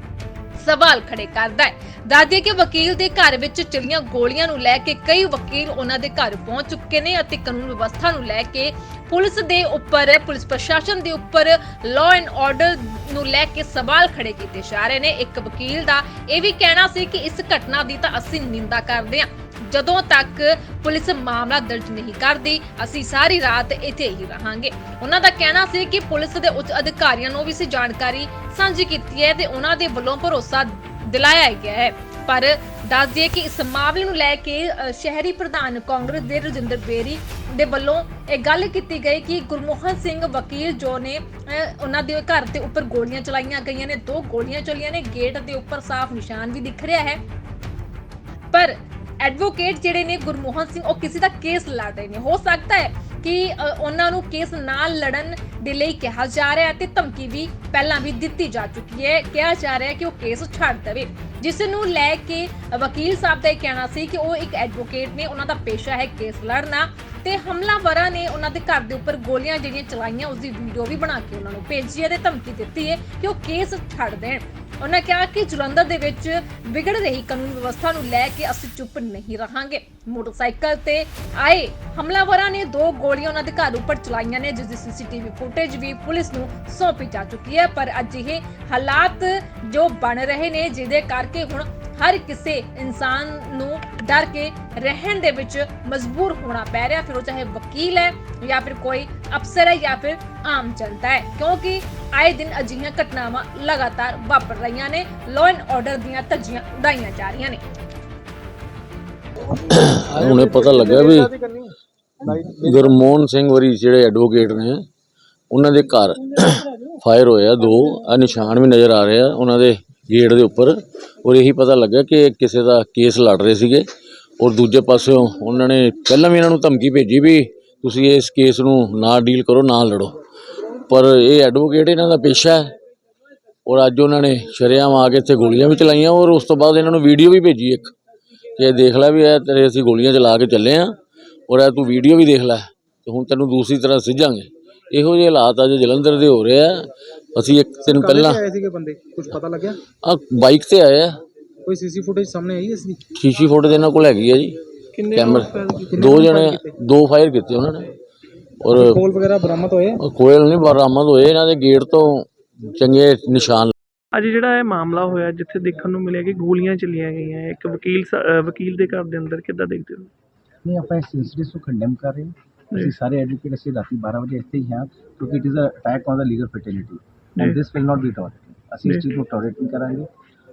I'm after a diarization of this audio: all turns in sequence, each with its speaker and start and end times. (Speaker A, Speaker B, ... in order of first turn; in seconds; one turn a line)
Speaker A: 0.6-47.2
Speaker A: 48.5-107.6
Speaker B: 109.7-111.3
Speaker C: 110.1-112.9
Speaker B: 112.6-114.8
Speaker B: 115.5-123.8
Speaker B: 124.4-130.2
Speaker B: 130.9-132.7
Speaker B: 133.7-137.9
Speaker B: 138.6-140.9
Speaker B: 141.5-148.4
Speaker C: 147.8-149.8
Speaker B: 150.0-151.2
Speaker C: 151.7-153.0
Speaker B: 153.2-154.6
Speaker D: 154.9-156.4
Speaker B: 155.1-157.9
Speaker C: 155.9-156.7
Speaker B: 158.6-159.0
Speaker C: 158.8-160.0
Speaker B: 160.0-163.7
Speaker D: 164.1-170.1
Speaker E: 170.6-180.1